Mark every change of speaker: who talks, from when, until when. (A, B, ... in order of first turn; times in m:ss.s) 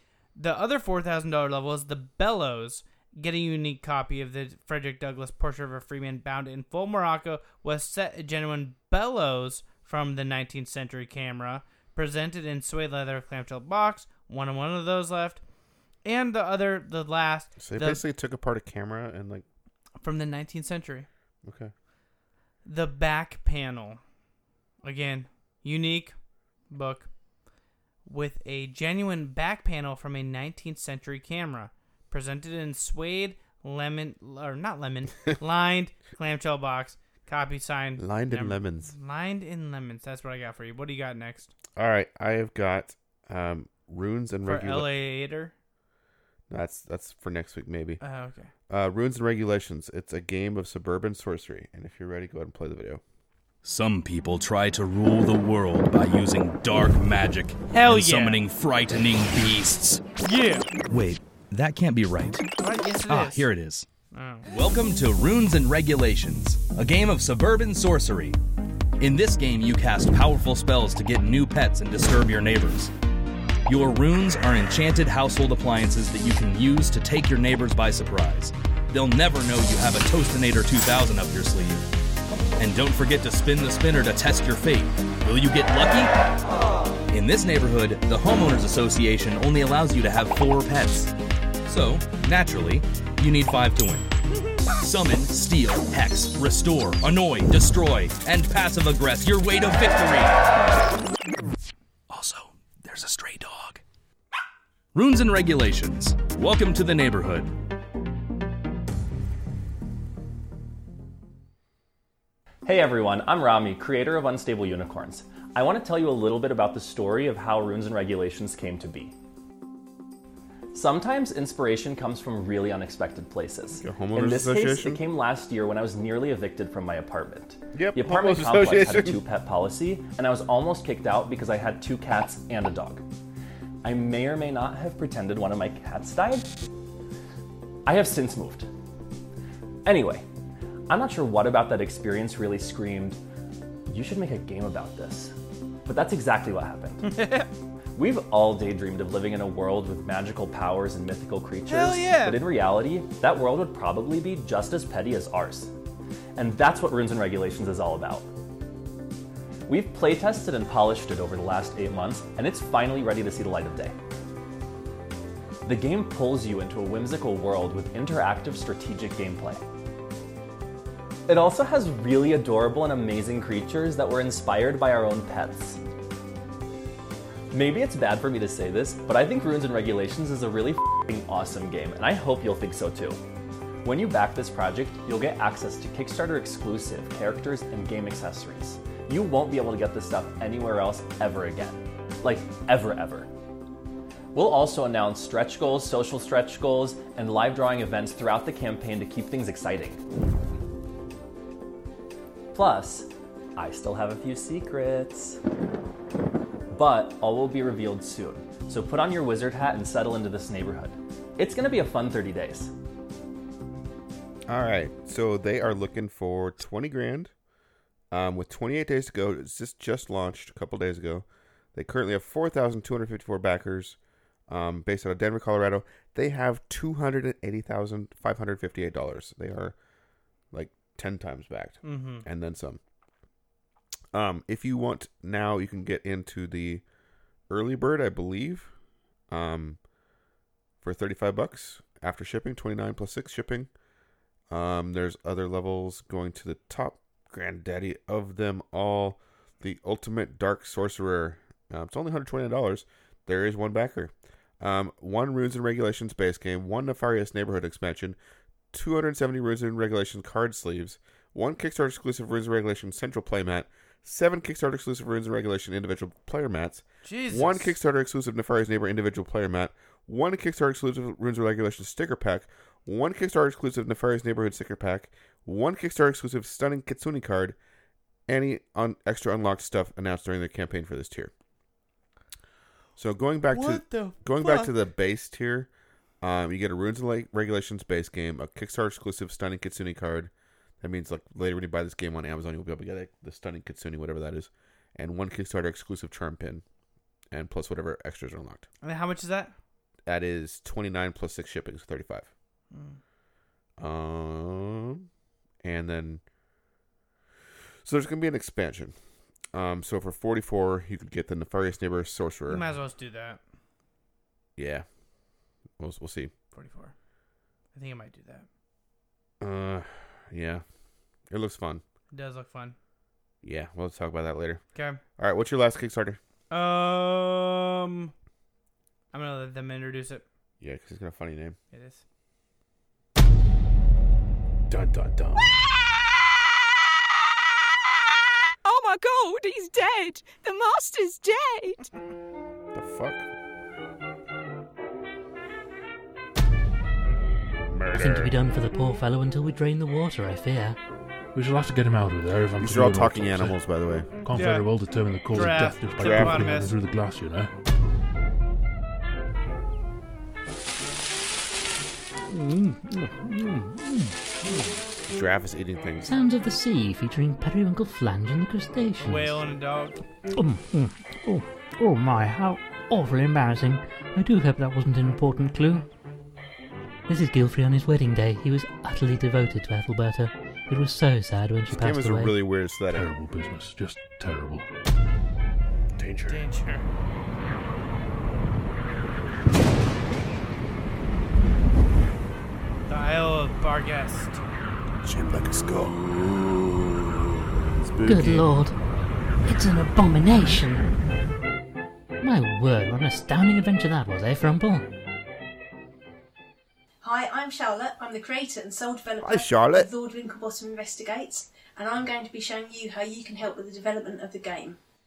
0:00.4-0:15.4 A
0:16.0-0:18.0 A
0:17.6-0:19.4 B
0:20.0-0:21.1 A
0:21.4-0:21.7 B
0:22.6-0:24.0 A
0:24.8-0:26.2 A
0:26.7-0:27.1 A
0:28.1-0:41.5 A
0:38.0-0:38.9 B
0:41.8-0:44.9 B
0:44.4-0:45.5 A
0:46.5-0:48.0 B
0:48.0-0:48.5 A
0:48.7-0:53.0 B
0:53.6-1:00.0 C
0:57.7-0:58.4 A
1:00.2-1:00.7 A
1:00.9-1:02.5 C
1:02.6-1:03.5 A
1:03.1-1:03.9 C
1:04.1-1:04.5 A
1:04.4-1:08.4 C
1:09.0-1:12.9 C
1:13.7-1:21.8 C
1:22.6-1:26.1 C
1:27.1-1:31.1 C
1:31.7-1:34.1 C
1:34.8-1:40.5 C
1:42.1-1:43.8 C
1:44.9-1:47.5 C
1:52.6-1:59.1 D
2:00.7-2:13.0 D
2:03.8-2:05.0 B
2:07.7-2:09.2 B
2:13.8-2:16.5 D
2:17.9-2:18.7 D
2:19.8-2:20.2 D
2:20.9-2:23.2 D
2:23.9-2:27.2 D
2:27.0-2:27.5 A
2:28.0-2:35.7 D
2:31.7-2:32.4 A
2:36.4-2:38.3 D
2:39.7-2:44.0 D
2:45.6-2:49.6 D
2:51.3-2:55.8 D
2:57.5-3:03.2 D
3:03.8-3:13.3 D
3:14.3-3:20.0 D
3:22.5-3:25.4 D
3:26.7-3:32.7 D
3:34.5-3:37.3 B
3:38.1-3:49.8 B
3:50.5-3:52.8 B
3:51.8-3:52.3 A
3:54.1-3:56.8 B
3:57.5-3:58.7 B
3:59.3-3:59.8 B
4:00.8-4:03.7 B
4:04.5-4:18.2 B
4:18.7-4:37.6 B
4:27.0-4:27.8 A
4:38.3-4:41.3 B
4:43.0-4:45.7 B
4:43.5-4:44.7 A
4:46.2-4:56.6 B
4:57.3-4:58.7 B
4:58.8-4:59.5 A
5:00.1-5:02.3 B
5:02.7-5:03.0 A
5:03.8-5:05.1 B
5:05.6-5:06.2 B
5:07.8-5:09.0 B
5:09.5-5:12.6 B
5:12.5-5:13.4 A
5:14.6-5:14.9 B
5:15.8-5:16.3 B
5:16.5-5:16.9 A
5:17.7-5:18.5 A
5:19.4-5:20.6 B
5:21.3-5:21.8 B
5:22.1-5:22.8 A
5:23.4-5:24.6 B
5:24.8-5:25.0 A
5:25.2-5:26.2 B
5:26.5-5:28.1 A
5:29.1-5:30.2 A
5:30.6-5:31.6 B
5:31.7-5:32.0 A
5:34.7-5:35.5 E
5:38.6-5:41.9 F
5:42.7-5:43.3 B
5:47.7-5:48.4 B
5:47.9-5:50.8 G
5:51.3-5:53.6 E
5:52.6-5:54.1 B
5:54.2-5:57.5 E
5:54.3-5:54.7 A
5:55.3-5:56.8 A
5:56.0-5:56.5 B
6:02.3-6:04.6 G
6:05.1-6:06.1 B
6:06.0-6:09.4 G
6:09.0-6:10.0 A
6:10.3-6:15.9 G
6:17.1-6:22.4 G
6:21.7-6:23.1 B
6:22.9-6:24.7 E
6:26.0-6:26.4 E
6:26.3-6:26.9 A
6:32.9-6:34.4 A
6:35.0-6:36.5 B
6:37.8-6:38.5 B
6:38.0-6:38.8 G
6:39.4-6:40.9 G
6:42.2-6:44.9 G
6:47.0-6:54.8 H
6:49.2-6:49.9 B